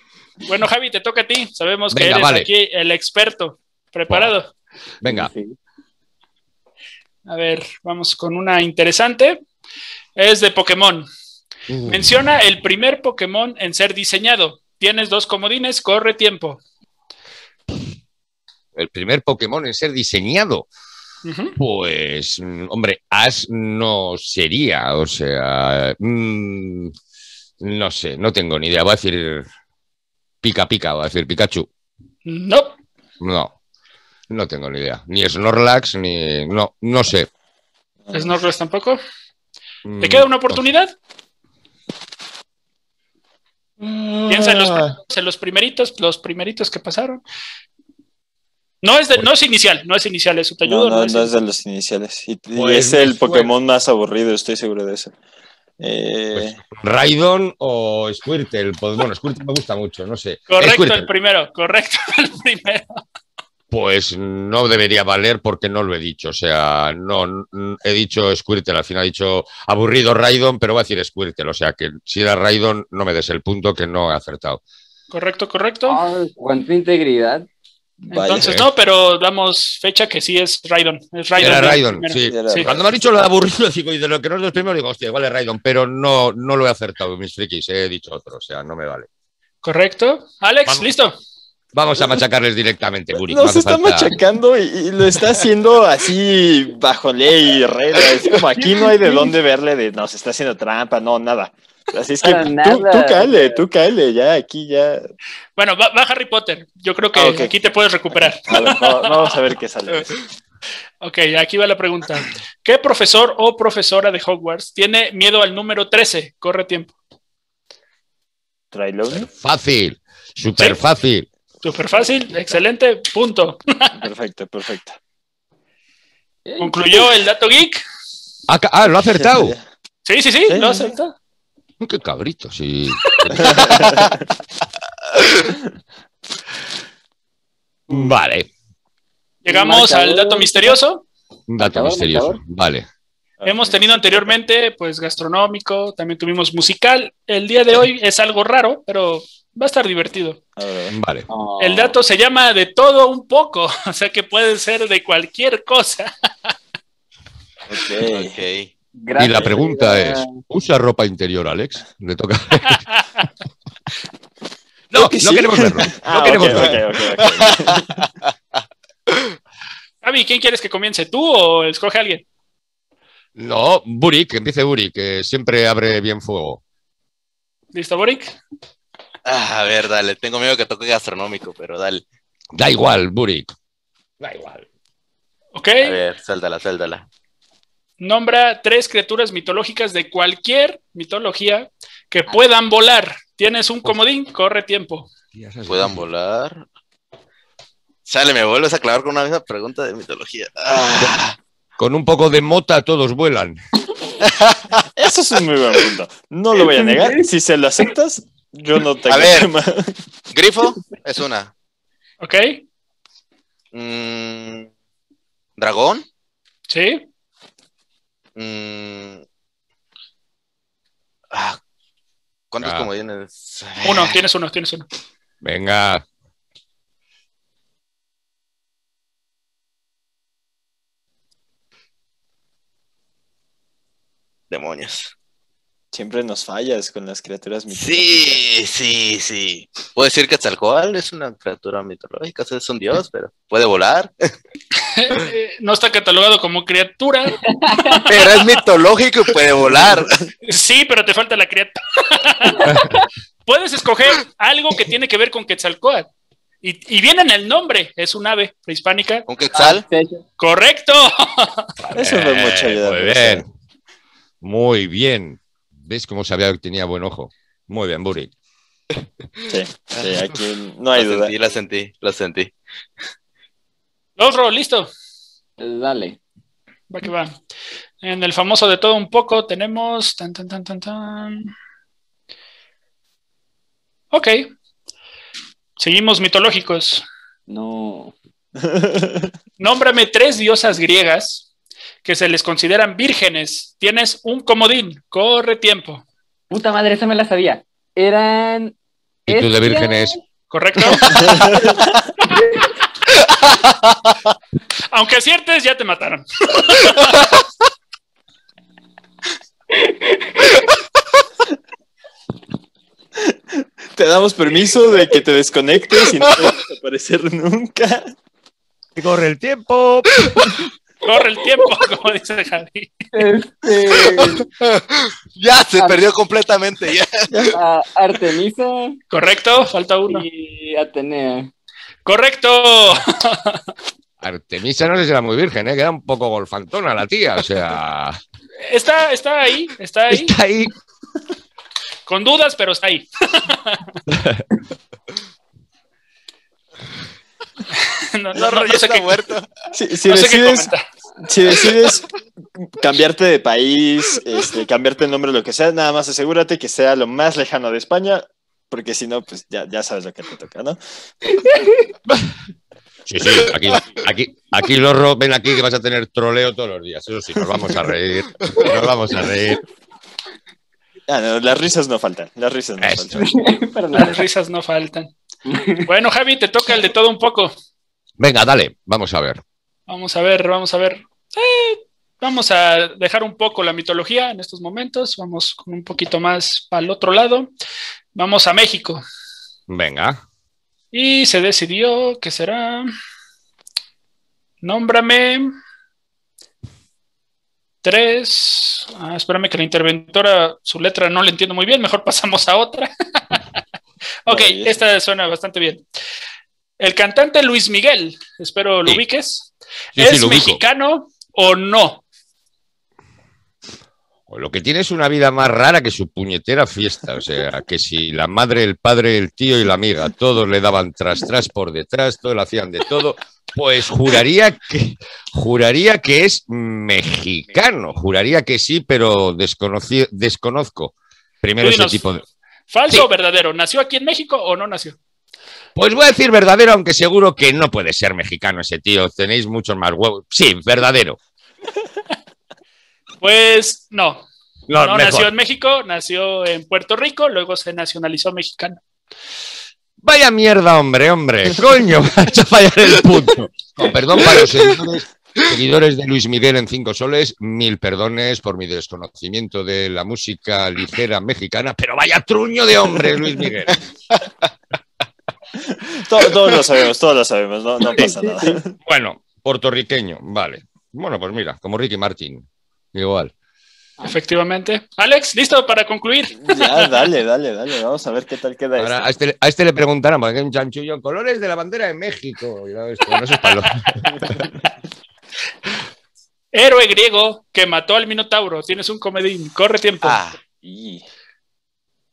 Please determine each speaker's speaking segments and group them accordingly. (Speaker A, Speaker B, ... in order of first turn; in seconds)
Speaker A: 0.4-4.5, 7.2-9.4, 10.2-11.1, 11.9-16.6, 21.2-21.6, 32.2-32.8, 38.1-39.0, 40.0-40.9, 44.3-47.2, 48.8-51.4, 60.5-63.0, 75.1-76.0, 78.1-82.7, 89.6-91.1, 105.5-109.4, 111.0-116.9, 121.6-124.0, 126.6-127.8, 130.0-131.1, 133.0-134.0, 139.4-141.1, 143.4-150.4, 151.6-156.1, 162.7-163.2, 170.0-172.2, 177.7-178.4, 185.5-186.0, 188.0-195.1, 212.2-212.6, 216.7-217.0, 223.8-224.8, 244.9-248.4, 250.4-252.8, 253.4-256.1, 256.6-259.2, 260.4-261.6, 274.2-274.9, 276.9-277.4, 278.0-281.5, 284.1-284.5, 285.8-287.0, 289.6-291.4, 292.0-296.0, 300.5-301.2, 304.9-307.3, 321.0-322.9, 329.1-330.2, 332.0-333.6, 338.6-340.4, 342.1-343.9, 347.7-349.2, 350.1-350.8, 373.9-375.1, 375.8-377.5, 379.9-387.5, 388.1-389.0, 390.9-392.9, 394.6-395.5, 397.8-403.4, 404.2-405.8, 406.8-412.0, 431.6-432.1, 432.7-435.0, 443.2-444.3, 444.8-448.8, 474.0-477.0, 483.4-484.0, 486.5-490.2
Speaker B: 1.9-2.5, 5.0-5.3, 11.7-12.1, 18.7-20.7, 21.6-26.9, 27.6-29.4, 30.4-31.7, 33.2-33.5, 34.3-37.3, 39.8-40.6, 43.8-44.9, 52.5-53.5, 56.3-61.1, 63.7-74.6, 78.4-78.6, 81.4-89.1, 91.7-94.2, 119.2-121.3, 128.5-129.5, 131.8-133.7, 137.9-138.5, 141.5-142.9, 150.9-151.3, 159.2-162.8, 164.9-166.8, 173.3-176.6, 182.5-183.5, 184.2-184.6, 195.3-196.0, 201.8-203.6, 222.6-222.9, 225.4-226.0, 261.9-263.4, 264.4-268.3, 299.3-300.2, 318.9-320.5, 334.2-338.2, 340.1-340.7, 344.1-344.4, 363.1-369.6, 372.8-373.3, 378.2-379.4, 389.7-390.2, 409.9-410.6, 414.3-432.2, 435.8-441.2, 444.7-445.3, 450.0-463.8, 468.8-473.3, 478.8-484.4
Speaker C: 5.0-5.5, 75.9-77.5, 102.2-103.6, 126.4-126.8, 139.5-140.8, 141.6-142.4, 151.3-152.0, 159.0-160.4, 206.8-207.1, 247.5-248.0, 252.5-252.9, 259.5-260.2, 275.6-276.2, 287.5-288.1, 296.5-298.7, 299.3-300.2, 301.0-302.8, 309.7-310.6, 323.1-324.5, 325.8-326.0, 327.5-329.0, 330.1-331.5, 373.1-374.2, 375.4-375.9, 467.9-468.6
Speaker D: 38.0-38.3, 50.6-55.1, 55.8-56.6, 78.0-78.5, 82.2-82.8, 93.2-105.1, 107.1-107.5, 108.1-110.2, 118.7-119.3, 124.0-125.0, 129.0-129.6, 130.5-130.9, 133.4-134.2, 143.4-144.3, 150.6-150.9, 157.7-158.4, 164.9-167.8, 200.7-201.0, 204.9-210.0, 235.9-238.4, 261.8-263.4, 269.5-271.3, 288.6-289.3, 301.1-301.5, 313.2-318.1, 349.7-350.7, 351.2-352.1, 352.8-360.8, 371.1-373.2, 404.2-404.8, 465.6-468.8, 476.4-479.1, 490.6-491.0
Speaker E: 158.0-158.7, 166.5-168.3, 179.2-182.0, 185.8-187.1, 195.7-196.6, 198.1-201.3, 204.2-204.8, 209.1-209.5, 210.3-211.5, 213.7-214.7, 215.6-216.0, 218.3-219.2, 221.3-221.6, 222.5-224.2, 234.5-235.1, 237.7-244.3, 248.1-250.2, 259.3-259.8, 270.9-272.5, 323.9-327.5, 348.3-349.5, 368.4-368.7, 490.0-490.4